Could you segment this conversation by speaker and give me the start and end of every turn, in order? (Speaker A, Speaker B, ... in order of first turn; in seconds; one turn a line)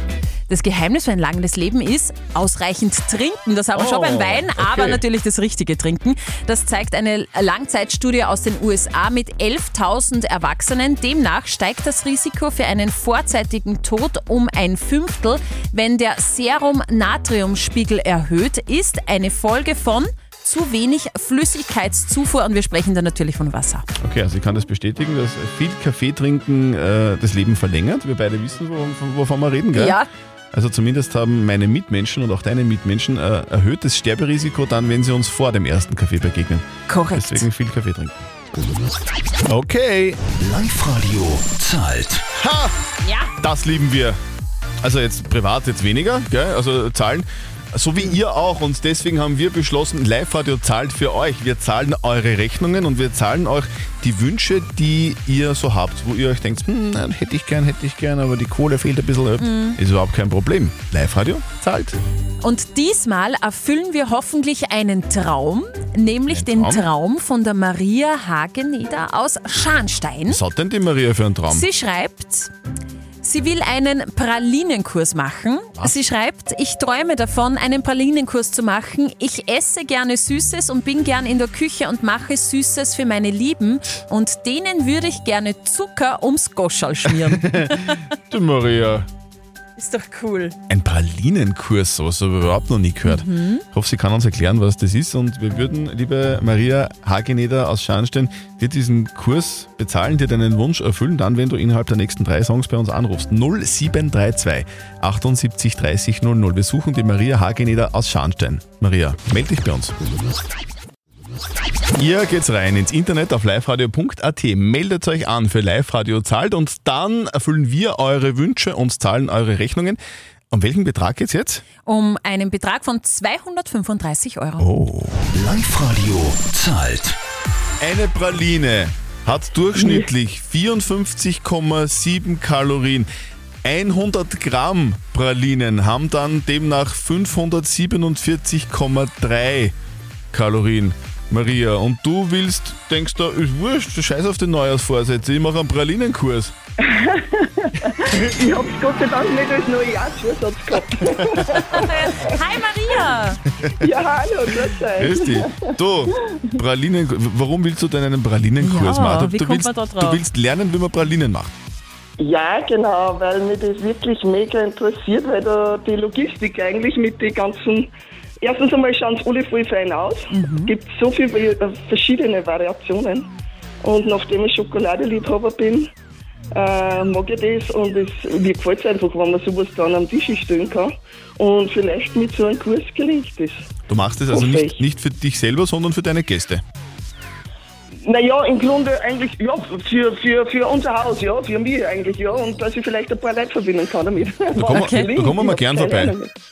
Speaker A: 0.5-23.9
Speaker B: 3.7-5.0
Speaker B: 24.0-30.0
Speaker A: 29.7-30.1
Speaker B: 30.5-38.3
Speaker A: 36.9-37.5
Speaker B: 39.5-40.2
Speaker C: 40.4-42.2
Speaker B: 42.4-42.7
Speaker A: 43.0-43.3
Speaker B: 43.4-44.2
Speaker B: 44.8-62.0
Speaker A: 59.4-59.8
Speaker A: 62.4-70.4
Speaker B: 66.3-66.9
Speaker B: 70.3-71.7
Speaker A: 71.5-72.5
Speaker A: 73.2-88.0
Speaker B: 87.1-87.7
Speaker B: 88.3-89.1
Speaker A: 89.8-90.5
Speaker B: 90.7-109.9
Speaker A: 93.1-93.6
Speaker B: 112.0-120.0
Speaker B: 120.5-121.6
Speaker A: 121.8-124.7
Speaker B: 124.6-125.3
Speaker C: 125.3-127.2
Speaker B: 127.8-133.1
Speaker D: 129.8-130.1
Speaker B: 133.7-139.8
Speaker B: 140.3-146.5
Speaker D: 146.8-152.3
Speaker A: 151.5-153.4
Speaker D: 153.8-155.7
Speaker B: 155.0-161.5
Speaker A: 158.6-160.2
Speaker D: 162.2-167.9
Speaker D: 168.4-173.3
Speaker A: 170.3-170.7
Speaker D: 173.8-175.9
Speaker D: 176.6-183.7
Speaker B: 183.9-186.6
Speaker D: 184.3-184.8
Speaker D: 188.1-196.3
Speaker B: 194.6-196.2
Speaker A: 194.7-195.1